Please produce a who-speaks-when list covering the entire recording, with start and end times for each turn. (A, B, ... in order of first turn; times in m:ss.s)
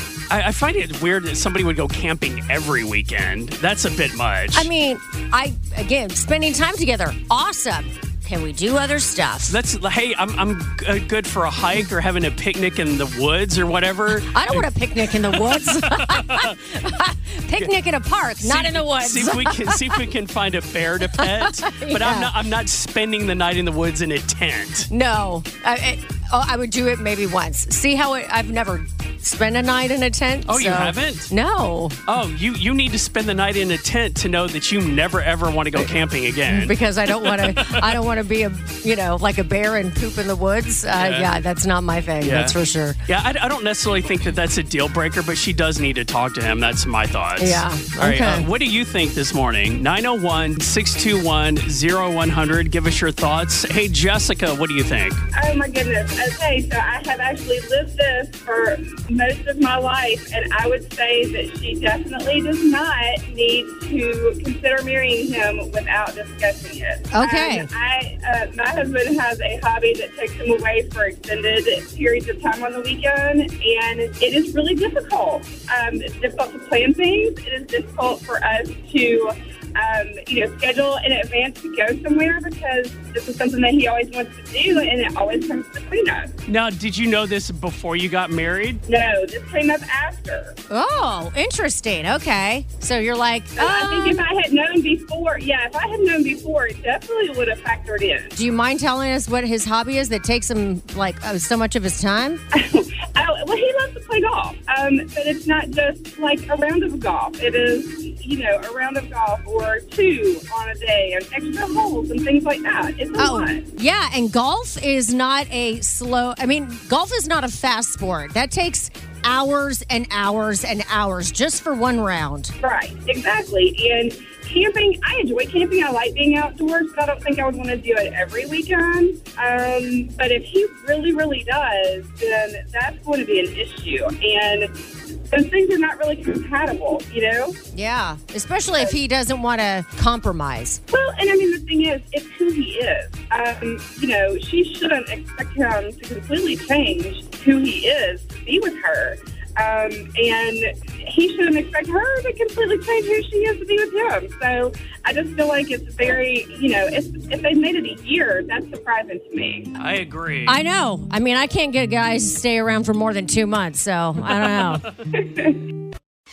0:00.3-0:04.7 A
0:04.5-0:09.5 B
0:09.5-0:16.6 A
0:14.3-0:19.8 B
0:18.4-0:24.9 A
0:21.2-0:22.3 B
0:24.9-0:32.0 B
0:30.5-0:31.3 A
0:32.1-0:37.9 A
0:36.5-0:43.0 B
0:40.9-0:41.3 A
0:42.2-0:42.6 A
0:43.1-0:55.2 A
0:47.4-0:48.4 B
0:55.3-1:26.3 C
1:07.1-1:07.7 B
1:26.5-1:28.8 A
1:28.9-1:30.6 C
1:30.7-1:34.2 B
1:33.6-1:38.3 C
1:38.3-1:42.4 B
1:42.5-1:53.7 C
1:53.2-2:02.5 B
2:02.6-2:14.7 C
2:15.3-2:17.6 C
2:17.7-2:20.8 B
2:20.9-2:39.7 C
2:39.8-2:40.6 A
2:40.5-2:44.8 B
2:44.4-2:44.8 A
2:45.2-2:45.6 C